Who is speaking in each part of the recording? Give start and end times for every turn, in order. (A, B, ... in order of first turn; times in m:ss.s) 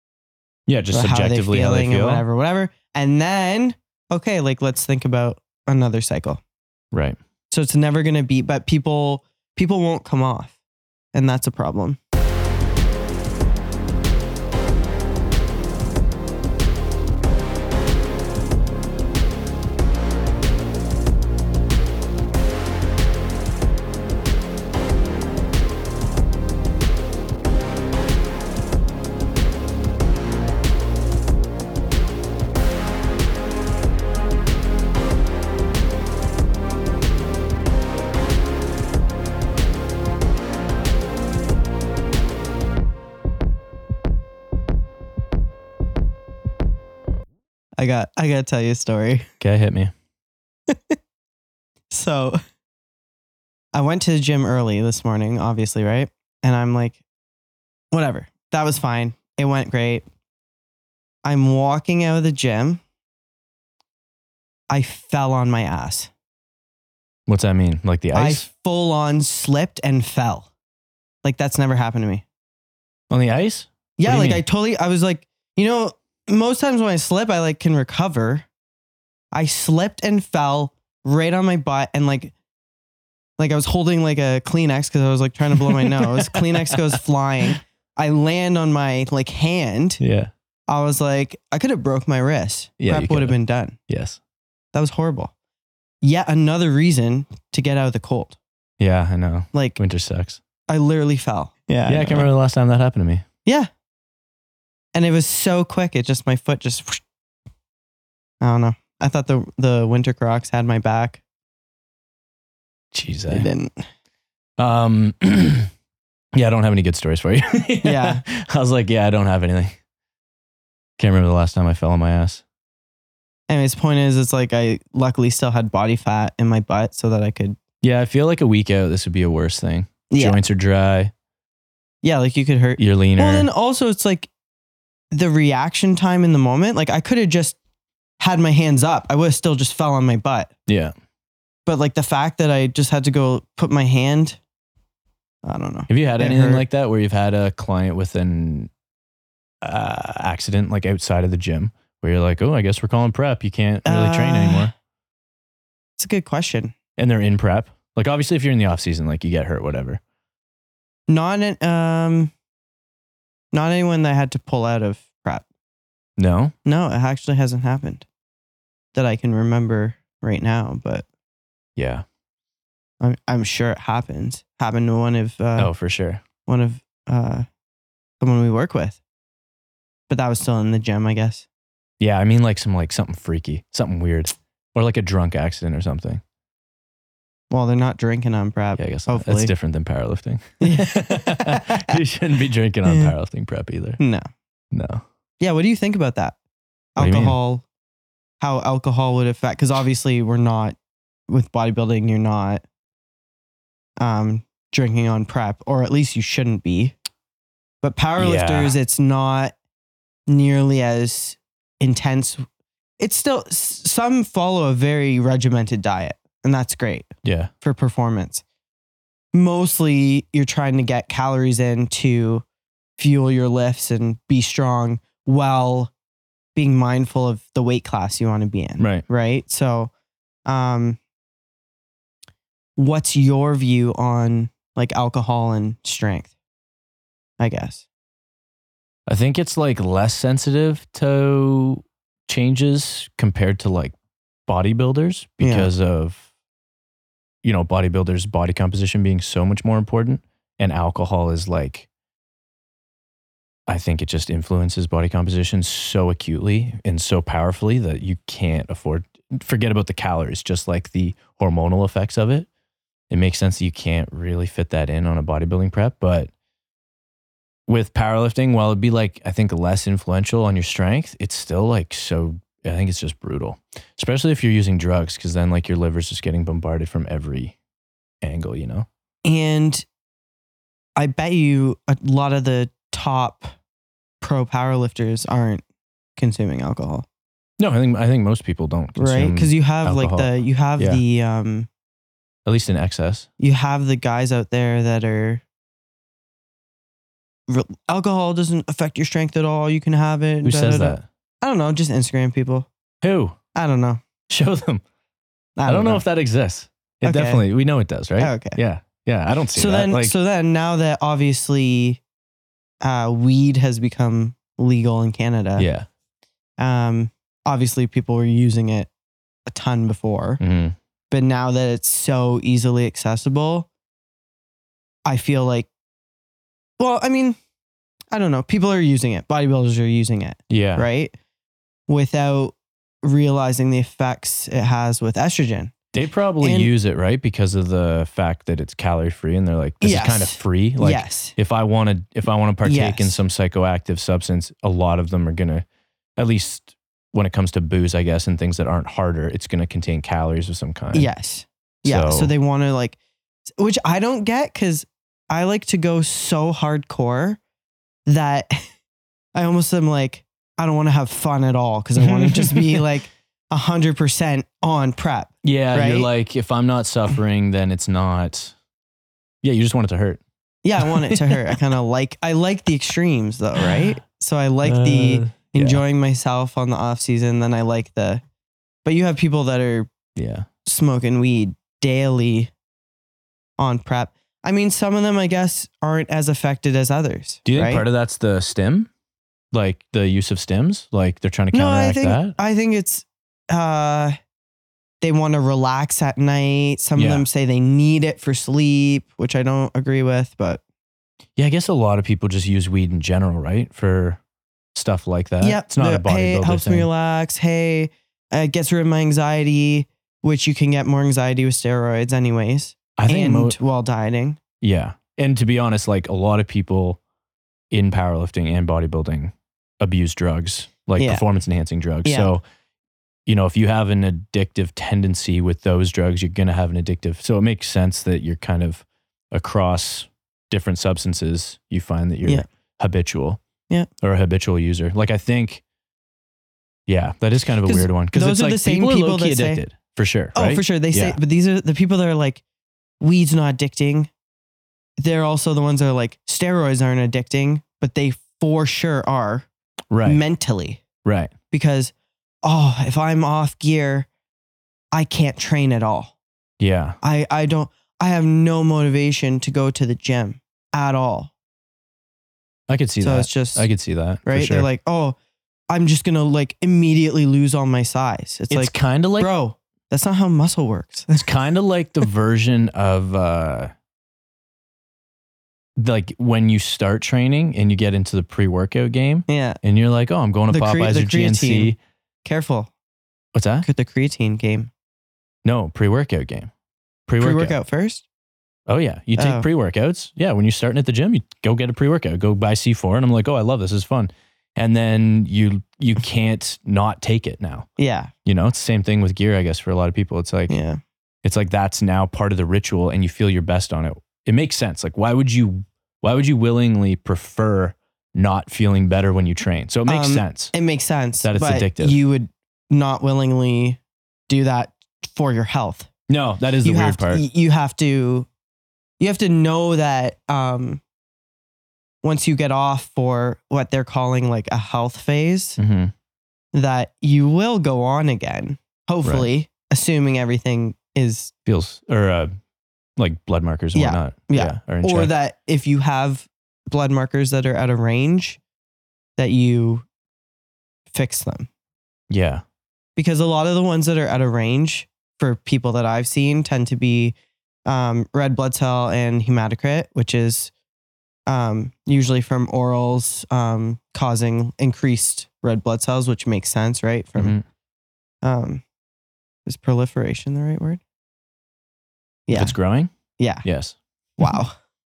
0:00.7-0:02.2 A
0:00.9-0:06.4 B
0:06.9-0:07.2 A
0:07.5-0:10.5 B
0:11.1-0:12.0 B
0:47.8-0:49.3 B
0:49.4-0:49.9 A
0:50.7-0:51.0 B
0:51.9-0:52.4 B
0:53.7-0:57.0 B
0:57.9-1:00.0 B
1:01.2-1:02.8 B
1:04.7-1:06.1 B
1:07.3-1:08.4 A
1:08.1-1:10.5 B
1:11.2-1:12.2 B
1:13.1-1:14.4 A
1:14.0-1:18.5 B
1:19.3-1:22.3 B
1:23.4-1:30.0 B
1:25.6-1:26.8 A
1:30.0-1:30.3 A
1:30.7-1:33.8 B
1:32.8-1:33.4 A
1:33.9-1:34.2 A
1:34.7-1:35.3 B
1:36.0-1:38.4 B
1:38.8-1:40.4 A
1:39.5-1:39.8 B
1:40.7-1:42.3 B
1:41.9-1:43.2 A
1:44.9-1:47.0 B
1:48.4-1:51.2 B
1:52.9-1:53.5 A
1:53.3-1:53.8 B
1:54.6-1:55.7 A
1:56.3-1:59.8 A
1:57.8-1:58.2 B
2:01.0-2:02.4 A
2:03.5-2:07.6 B
2:07.8-2:11.1 A
2:10.1-2:10.4 B
2:12.0-2:14.3 B
2:12.8-2:13.5 A
2:15.1-2:17.6 B
2:18.2-2:20.5 B
2:20.7-2:20.9 A
2:21.7-2:24.4 B
2:25.4-2:26.6 B
2:25.9-2:28.7 A
2:29.6-2:34.7 A
2:33.8-2:34.7 B
2:36.0-2:36.7 B
2:37.0-2:40.0 A
2:41.1-2:42.3 B
2:43.5-2:45.4 B
2:46.2-2:46.5 A
2:46.6-2:48.0 B
2:48.9-2:51.0 B
2:51.8-2:52.0 A
2:53.0-2:55.7 B
2:55.6-2:56.2 A
2:56.4-2:57.5 B
2:58.2-2:59.0 B
3:00.1-3:01.5 B
3:02.0-3:06.2 A
3:07.5-3:09.5 B
3:08.8-3:14.0 A
3:10.6-3:12.0 B
3:14.0-3:14.3 B
3:14.7-3:15.0 A
3:15.4-3:16.4 B
3:17.0-3:17.6 B
3:17.0-3:17.4 A
3:18.4-3:20.8 B
3:21.3-3:22.6 B
3:24.0-3:27.0 B
3:27.8-3:29.5 B
3:28.2-3:28.7 A
3:30.3-3:32.5 B
3:33.0-3:37.1 B
3:37.2-3:37.5 A
3:37.6-3:38.4 B
3:39.3-3:42.4 B
3:43.0-3:45.9 B
3:46.6-3:49.9 B
3:48.8-3:49.0 A
3:50.5-3:51.0 B
3:52.8-3:56.3 B
3:57.4-3:57.8 B
3:59.1-4:03.9 A
4:04.5-4:06.3 A
4:05.4-4:05.7 B
4:07.4-4:11.9 A
4:13.7-4:22.5 A
4:23.1-4:26.3 A
4:27.7-4:37.5 A
4:38.2-4:38.9 A
4:39.2-4:39.8 B
4:41.0-4:43.5 B
4:44.2-4:45.6 B
4:46.2-4:47.1 B
4:47.6-4:51.0 A
4:49.0-4:51.7 B
4:52.4-4:53.3 A
4:53.4-4:55.4 B
4:57.5-5:02.7 B
5:00.4-5:01.1 A
5:03.0-5:03.4 A
5:03.5-5:04.0 B
5:04.3-5:04.8 A
5:05.6-5:06.0 B
5:05.6-5:10.1 A
5:07.0-5:07.4 B
5:08.2-5:08.6 B
5:09.5-5:12.0 B
5:12.8-5:15.7 B
5:15.6-5:15.8 A
5:16.6-5:18.9 B
5:19.5-5:20.4 B
5:20.4-5:20.8 A
5:21.1-5:23.7 B
5:25.0-5:25.7 B
5:26.8-5:27.4 B
5:28.1-5:31.1 B
5:30.5-5:30.8 A
5:31.9-5:35.7 B
5:35.9-5:45.6 A
5:36.4-5:36.7 B
5:39.8-5:41.3 B
5:42.6-5:43.2 B
5:46.2-5:51.1 A
5:50.9-5:53.0 B
5:51.8-5:52.3 A
5:53.6-5:57.4 B
5:58.1-5:58.5 B
5:59.3-6:06.1 B
6:02.0-6:02.9 A
6:05.4-6:08.5 A
6:09.4-6:10.2 A
6:10.6-6:18.2 B
6:10.8-6:11.6 A
6:14.6-6:15.8 A
6:18.8-6:19.9 B
6:20.2-6:20.5 A
6:20.6-6:22.5 B
6:23.6-6:27.8 B
6:27.4-6:28.9 A
6:29.5-6:32.4 A
6:31.5-6:34.1 B
6:35.0-6:40.6 B
6:37.0-6:37.3 A
6:41.4-6:44.2 A
6:44.7-6:46.9 A
6:45.4-6:54.4 B
6:53.0-6:53.6 A
6:54.6-6:57.0 A
6:57.7-7:02.4 A
7:01.0-7:01.2 B
7:02.0-7:02.3 B
7:03.2-7:13.4 A
7:14.0-7:15.6 A
7:16.9-7:21.2 A
7:17.6-7:19.6 B
7:20.3-7:22.4 B
7:23.0-7:24.1 B
7:25.0-7:29.5 B
7:29.9-7:30.2 A
7:30.0-7:30.8 B
7:31.0-7:31.3 A
7:31.5-7:31.9 B
7:32.4-7:34.1 B
7:34.9-7:36.1 B
7:36.6-7:37.0 A
7:37.0-7:41.3 B
7:42.7-7:44.7 A
7:43.0-7:43.7 B
7:44.2-7:45.2 B
7:45.7-7:51.3 B
7:48.5-7:49.3 A
7:51.1-7:53.7 A
7:55.8-8:01.8 A
7:59.3-7:59.6 B
8:00.5-8:02.7 B
8:03.3-8:03.6 A
8:03.6-8:04.7 B
8:05.4-8:06.5 A
8:07.1-8:07.6 A
8:07.2-8:08.0 B
8:08.7-8:17.7 A
8:09.2-8:09.5 B
8:17.8-8:18.1 B
8:18.2-8:20.5 A
8:20.5-8:20.8 B
8:21.2-8:30.5 A
8:29.9-8:35.9 B
8:31.2-8:32.0 A
8:36.1-8:37.2 A
8:36.6-8:38.3 B
8:39.0-8:40.8 B
8:42.0-8:45.6 B
8:45.6-8:45.9 A
8:46.5-8:51.3 B
8:51.5-8:52.3 A
8:53.0-8:55.1 A
8:53.7-8:58.4 B
8:59.2-8:59.8 B
9:00.9-9:01.5 B
9:02.1-9:02.4 A
9:03.0-9:10.5 B
9:11.3-9:17.4 B
9:17.2-9:17.4 A
9:18.2-9:18.6 B
9:19.5-9:20.8 B
9:22.3-9:22.6 B
9:22.3-9:22.9 A
9:23.2-9:23.4 B
9:23.4-9:24.4 A
9:24.2-9:24.6 B